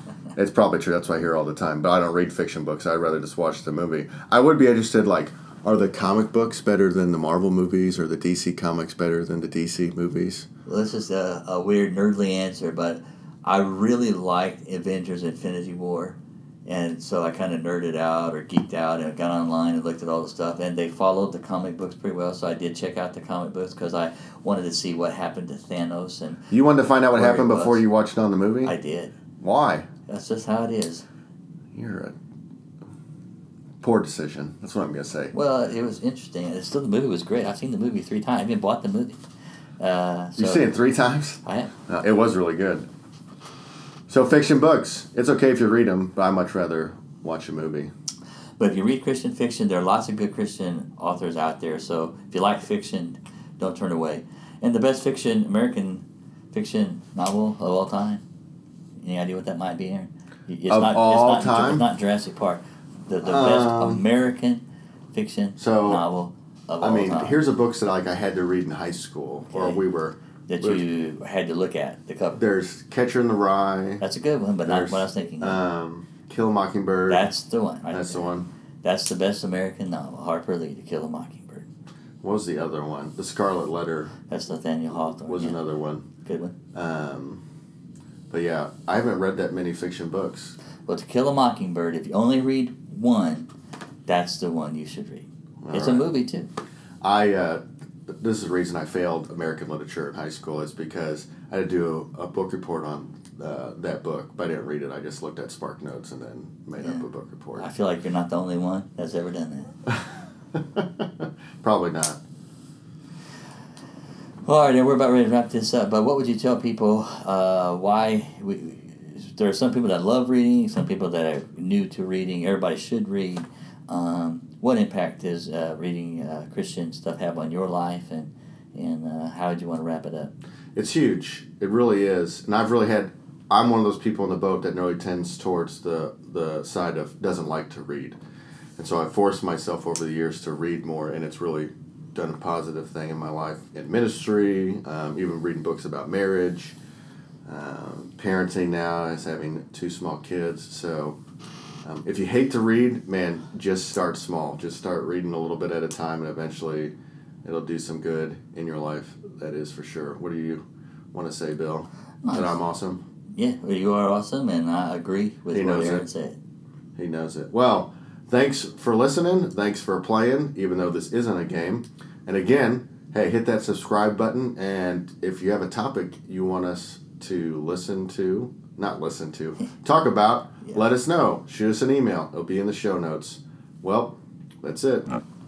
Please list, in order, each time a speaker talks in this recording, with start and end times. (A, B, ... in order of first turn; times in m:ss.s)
0:00.4-0:10.5 A
0:10.6-0:26.5 B
0:26.5-0:28.7 A
0:27.1-0:27.8 B
0:28.6-0:29.1 B
0:29.4-0:29.9 A
0:30.1-0:31.0 B
0:31.7-0:32.2 A
0:33.8-0:35.3 A
0:35.3-0:39.2 B
0:39.8-0:40.6 B
0:40.4-0:42.9 A
0:41.4-0:41.7 B
0:44.1-0:47.9 A
0:48.6-0:58.2 B
0:59.0-1:04.6 B
1:00.7-1:01.8 A
1:03.2-1:04.0 A
1:05.1-1:07.4 B
1:05.6-1:06.0 A
1:06.8-1:10.8 A
1:09.5-1:09.8 B
1:10.5-1:12.4 B
1:12.3-1:14.0 A
1:14.0-1:15.6 B
1:14.6-1:17.3 A
1:17.1-1:18.3 B
1:17.9-1:18.5 A
1:18.8-1:21.7 B
1:22.2-1:24.1 A
1:24.3-1:25.6 B
1:25.1-1:26.0 A
1:26.2-1:26.6 B
1:26.7-1:27.4 A
1:28.3-1:30.6 A
1:30.9-1:33.5 B
1:34.0-1:36.5 B
1:35.6-1:36.1 A
1:37.0-1:47.7 A
1:47.6-1:49.7 B
1:50.5-1:52.2 A
1:54.4-2:10.3 B
2:10.8-2:18.2 A
2:18.8-2:26.8 A
2:27.4-2:31.2 A
2:31.8-2:36.9 A
2:37.4-2:43.0 A
2:42.2-2:42.6 B
2:43.3-2:46.4 B
2:45.5-2:46.0 A
2:47.0-3:05.1 A